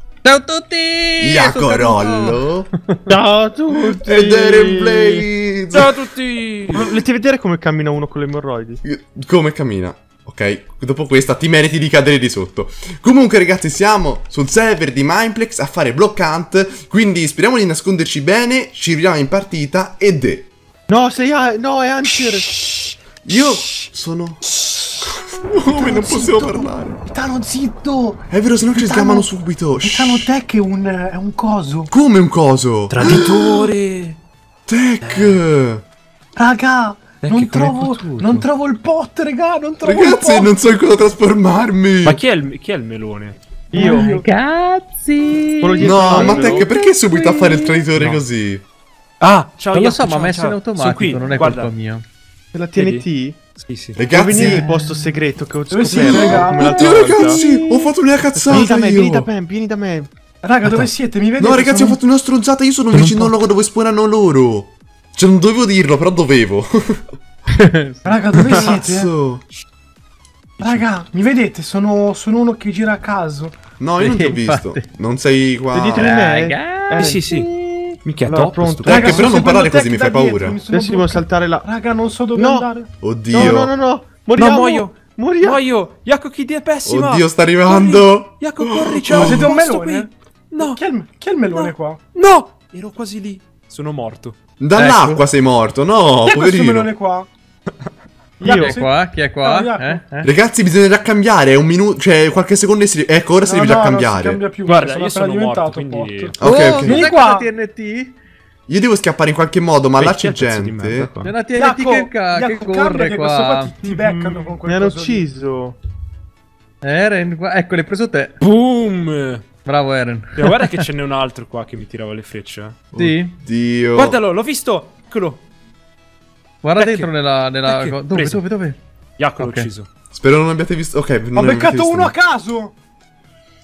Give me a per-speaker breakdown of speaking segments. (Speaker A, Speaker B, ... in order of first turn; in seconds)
Speaker A: 0.2-3.1, 43.8-47.9, 49.7-52.0, 67.5-68.5, 74.0-74.9, 76.0-78.0, 94.7-95.2, 98.4-100.3, 106.4-108.2, 111.2-113.7, 116.8-118.4, 119.6-120.8, 122.9-123.4, 126.6-128.8, 129.4-129.7
Speaker B: 1.2-2.7, 3.7-6.0, 8.8-20.5, 23.2-24.4, 25.1-27.0, 28.3-30.3, 31.9-33.7, 34.7-35.8, 39.8-42.2, 45.8-48.6, 54.0-54.6, 56.3-59.3, 61.4-67.0, 68.5-69.4, 73.8-76.1, 78.8-80.6, 83.0-83.7, 86.8-89.5, 94.6-96.9, 100.2-104.4, 106.4-107.0, 108.7-111.1, 122.9-124.2, 130.1-132.1
Speaker C: 3.1-5.2, 6.7-8.8, 20.9-22.5, 43.7-44.1, 45.6-46.7, 52.5-53.4, 54.1-57.4, 58.3-60.1, 75.7-77.2, 78.3-79.3, 80.7-81.7, 82.3-82.7, 83.3-85.6, 98.4-98.8, 113.8-115.8
Speaker D: 5.7-7.0, 32.9-34.2, 35.0-35.4, 37.2-38.5, 42.0-43.4, 49.2-51.7, 52.7-53.0, 53.5-54.5, 62.9-63.4, 68.4-68.8, 70.6-70.8, 77.0-77.5, 78.0-79.2, 84.3-90.8, 91.5-94.3, 104.6-106.4, 110.0-111.3, 118.4-119.4, 120.3-122.8, 123.9-125.4, 126.8-127.1, 127.6-128.4, 129.2-129.9
Speaker E: 25.6-31.9, 36.4-40.5, 43.7-44.2, 55.7-57.8, 60.4-62.0, 68.0-69.1, 70.6-73.5, 78.9-83.5, 89.1-92.0, 96.2-97.3, 98.4-100.0, 103.4-107.5, 111.5-115.3, 131.3-132.7